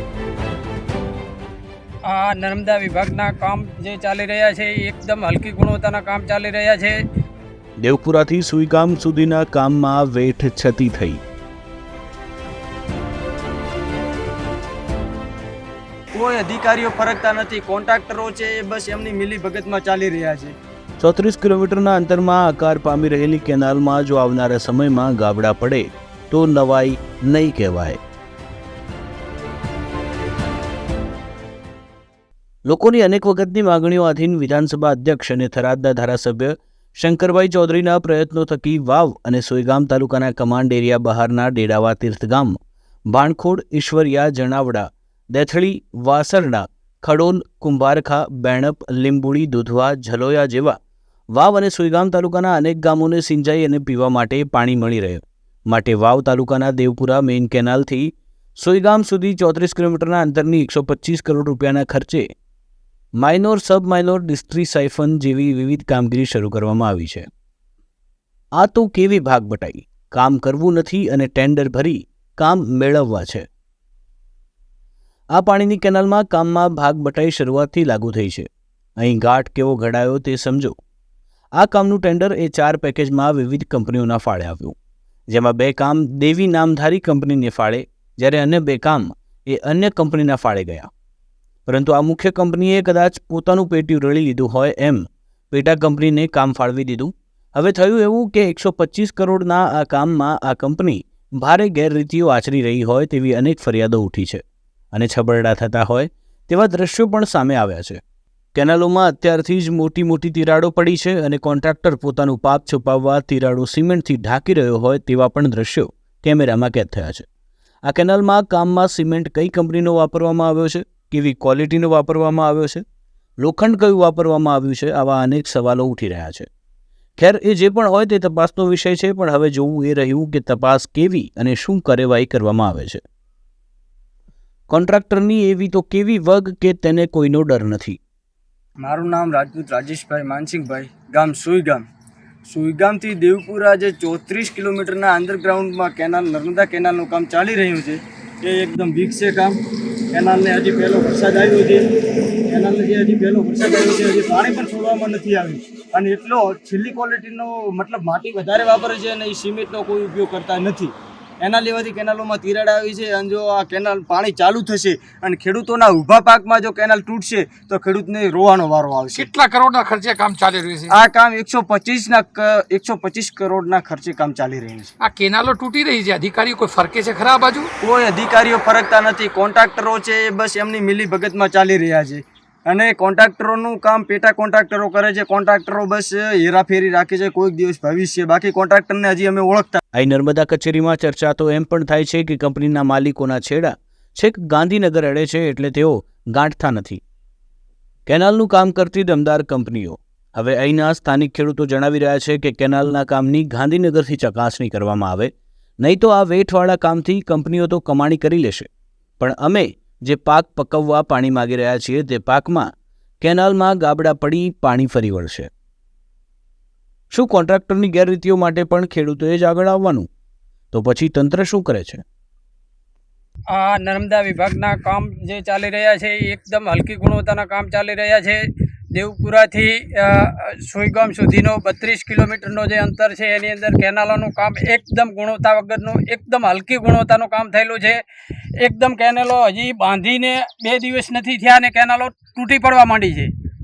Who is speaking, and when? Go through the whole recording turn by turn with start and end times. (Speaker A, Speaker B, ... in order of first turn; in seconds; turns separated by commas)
Speaker A: 2.0-7.0, Speaker B: 7.8-11.2, Speaker C: 16.1-20.5, Speaker B: 21.0-28.0, Speaker B: 32.7-42.5, Speaker B: 43.1-50.8, Speaker B: 51.3-62.3, Speaker B: 63.2-67.3, Speaker B: 68.6-73.4, Speaker B: 75.3-78.5, Speaker B: 79.0-80.7, Speaker B: 81.6-84.7, Speaker B: 85.3-90.9, Speaker B: 91.7-108.0, Speaker B: 108.5-117.2, Speaker B: 117.8-122.8, Speaker B: 123.4-126.5, Speaker B: 127.2-133.0, Speaker B: 134.7-138.0, Speaker C: 138.8-141.8, Speaker C: 142.5-149.6, Speaker C: 150.1-151.8, Speaker C: 152.5-169.3, Speaker D: 169.2-170.9, Speaker C: 170.9-174.9, Speaker D: 175.0-177.7, Speaker C: 177.8-189.8, Speaker B: 189.9-197.0, Speaker B: 198.1-208.7, Speaker B: 209.2-212.7, Speaker B: 213.2-215.5, Speaker B: 217.1-220.1, Speaker B: 220.7-222.0, Speaker A: 223.5-238.0, Speaker A: 238.6-243.3